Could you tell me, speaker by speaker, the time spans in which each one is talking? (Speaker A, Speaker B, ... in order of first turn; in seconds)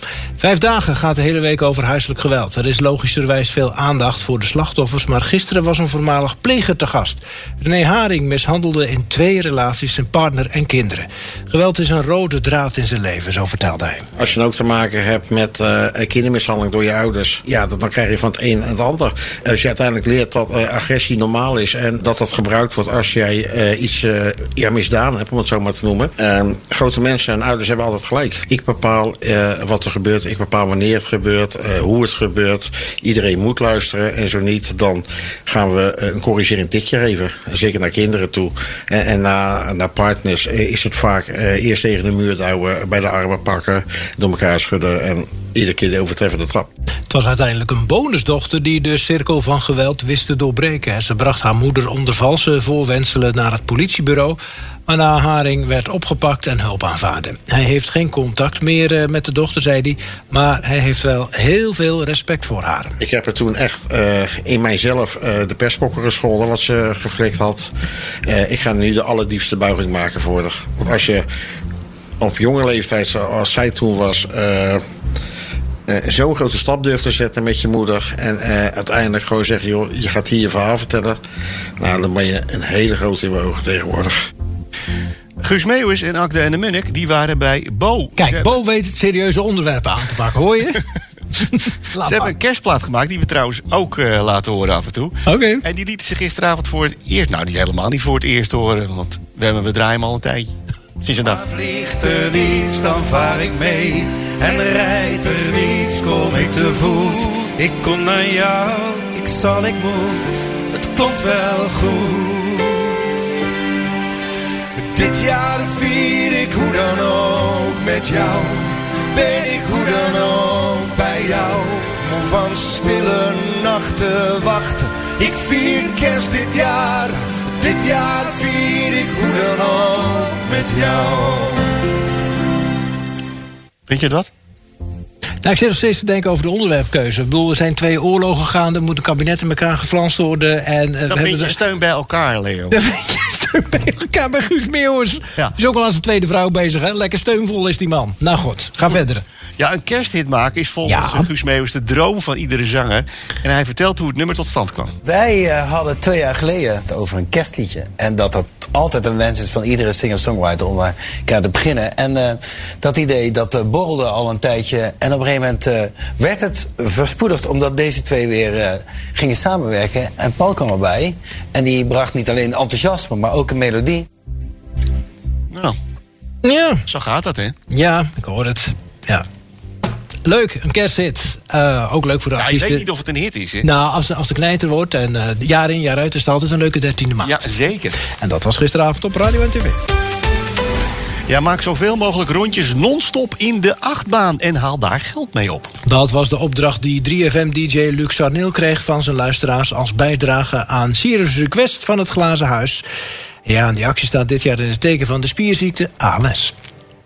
Speaker A: 0.4-14.0, 47.1-62.9, 88.2-90.8, 91.4-92.3, 95.2-95.6, 135.4-141.6, 142.7-149.2, 150.8-151.3, 176.4-176.8, 177.7-179.2, 180.2-182.9, 183.6-187.5, 188.2-189.8, 195.8-202.8, 203.4-206.5
Speaker B: 14.2-46.7, 63.0-67.7, 68.3-71.2, 72.2-74.8, 75.9-81.2, 81.8-84.1
Speaker C: 85.4-88.5, 92.0-100.5, 101.0-101.4, 133.9-134.3, 141.1-142.7, 149.6-154.9, 176.9-177.5, 182.4-183.6, 187.2-187.9, 191.3-195.7
Speaker D: 101.5-112.7, 114.9-131.6
Speaker E: 155.0-174.1